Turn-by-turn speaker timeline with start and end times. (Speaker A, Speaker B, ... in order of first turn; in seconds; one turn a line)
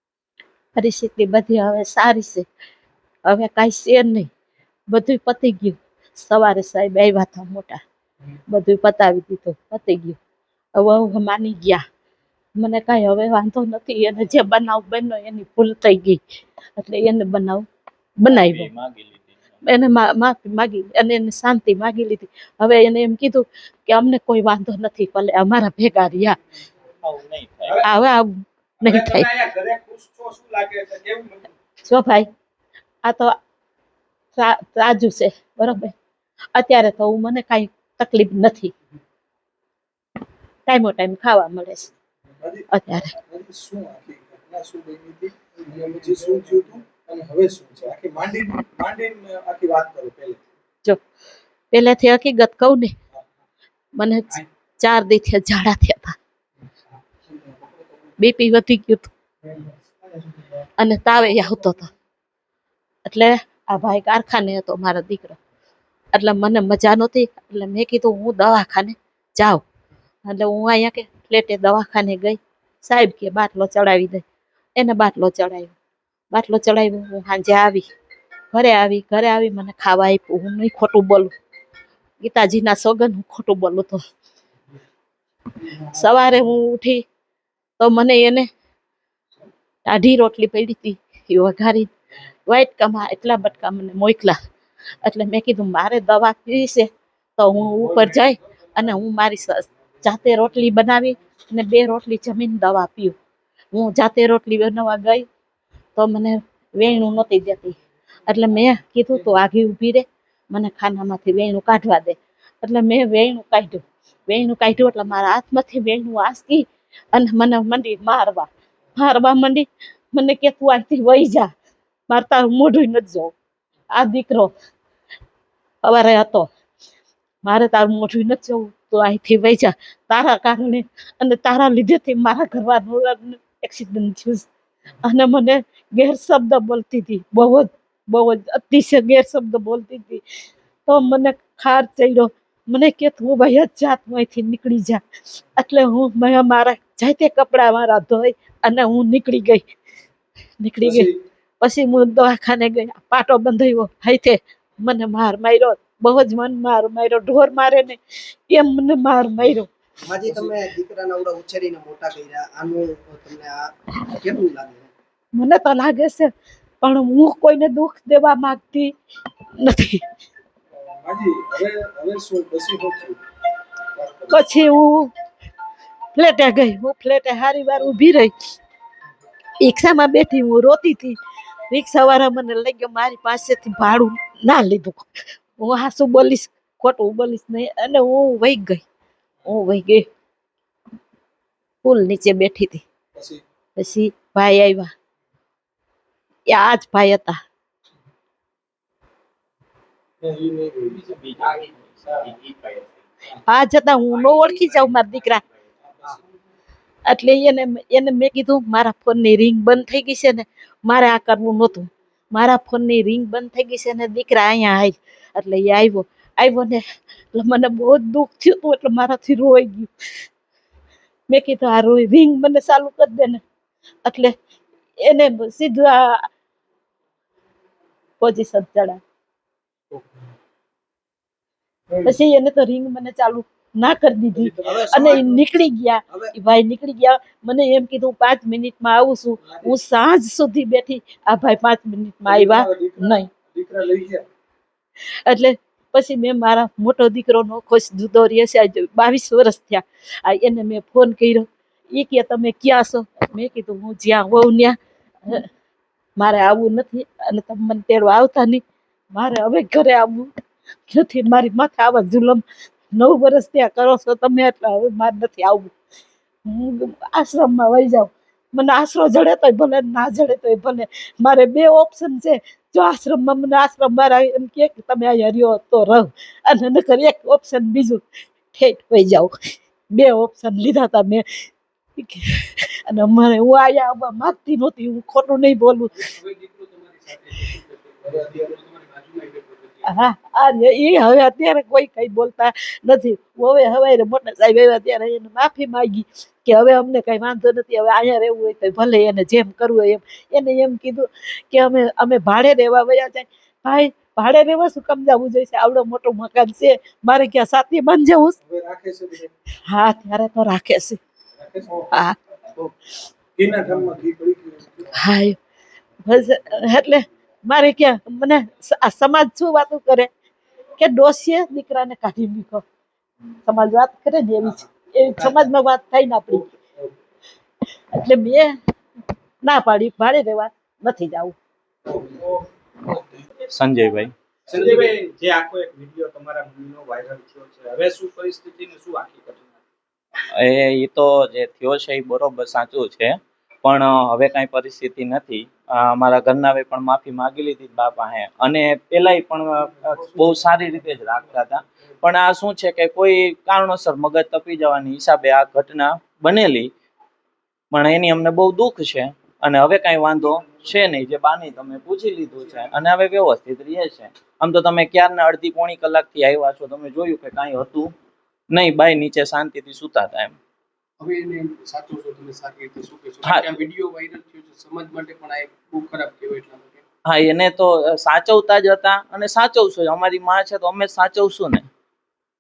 Speaker A: 0.8-2.5
Speaker A: 3.3-4.3
Speaker A: 4.9-7.8
Speaker A: 8.5-10.2
Speaker A: 10.8-11.8
Speaker A: 12.6-16.2
Speaker A: 16.8-17.6
Speaker A: 18.2-18.7
Speaker B: 18.3-19.6
Speaker A: 19.6-26.4
Speaker B: 27.0-27.9
Speaker A: 27.8-29.3
Speaker C: 28.8-31.5
Speaker A: 31.9-32.3
Speaker A: 33.0-33.4
Speaker A: 34.4-35.9
Speaker A: 36.5-38.7
Speaker A: 40.7-41.9
Speaker D: 42.4-42.7
Speaker A: 42.7-43.1
Speaker D: 43.2-50.4
Speaker A: 51.7-52.9
Speaker A: 54.0-56.2
Speaker D: 57.3-57.9
Speaker A: 58.2-59.1
Speaker D: 59.5-60.1
Speaker A: 60.8-61.9
Speaker A: 63.1-65.4
Speaker A: 66.1-69.6
Speaker A: 70.2-74.2
Speaker A: 74.8-75.7
Speaker A: 76.3-77.9
Speaker A: 78.5-81.3
Speaker A: 82.2-84.0
Speaker A: 85.8-87.0
Speaker A: 87.8-88.5
Speaker A: 89.9-91.9
Speaker A: 92.5-94.4
Speaker A: 95.0-103.2
Speaker A: 103.7-105.2
Speaker A: 106.0-121.5
Speaker A: 122.1-123.3
Speaker A: 123.9-124.5
Speaker A: 125.8-126.5
Speaker A: 127.4-134.5
Speaker A: 135.0-140.2
Speaker A: 140.9-145.0
Speaker A: 145.6-149.7
Speaker A: 150.6-151.1
Speaker D: 150.8-151.2
Speaker A: 151.6-158.0
Speaker A: 158.5-159.7
Speaker E: 160.0-164.9
Speaker D: 160.2-160.6
Speaker A: 165.3-166.3
Speaker A: 166.8-168.9
Speaker A: 169.6-170.0
Speaker D: 170.7-173.2
Speaker D: 173.9-174.4
Speaker A: 174.3-175.1
Speaker A: 176.1-178.3
Speaker A: 179.6-181.2
Speaker A: 181.7-188.8
Speaker A: 189.4-190.1
Speaker A: 191.8-192.8
Speaker D: 193.2-193.4
Speaker A: 193.8-194.9
Speaker A: 196.5-197.4
Speaker F: 200.2-201.0
Speaker B: 201.0-202.9
Speaker A: 203.5-205.4
Speaker A: 207.1-216.8
Speaker A: 217.3-219.9
Speaker A: 221.3-223.4
Speaker A: 224.1-224.3
Speaker A: 225.0-226.2
Speaker A: 228.2-229.0
Speaker D: 229.9-230.2
Speaker A: 232.1-243.3
Speaker D: 234.4-235.3
Speaker E: 234.6-235.2
Speaker D: 239.4-239.7
Speaker D: 242.3-244.3
Speaker A: 245.3-254.8
Speaker A: 256.2-258.6
Speaker A: 259.1-260.3
Speaker A: 260.9-262.4
Speaker A: 262.9-265.7
Speaker A: 266.5-279.3
Speaker A: 279.9-281.2
Speaker A: 282.0-286.1
Speaker F: 285.9-289.9
Speaker A: 289.9-308.4
Speaker D: 308.4-309.3
Speaker A: 309.7-311.0
Speaker D: 311.4-311.9
Speaker A: 311.9-312.2
Speaker D: 313.4-315.0
Speaker A: 314.9-315.4
Speaker A: 316.1-320.1
Speaker A: 320.8-322.6
Speaker A: 323.5-326.5
Speaker D: 326.6-326.9
Speaker A: 327.9-328.6
Speaker A: 329.4-331.4
Speaker C: 332.2-332.4
Speaker B: 333.5-334.1
Speaker C: 334.5-339.5
Speaker B: 340.3-356.7
Speaker B: 357.7-367.9
Speaker B: 368.5-370.4
Speaker F: 371.0-376.8
Speaker B: 373.2-373.6
Speaker B: 377.1-381.7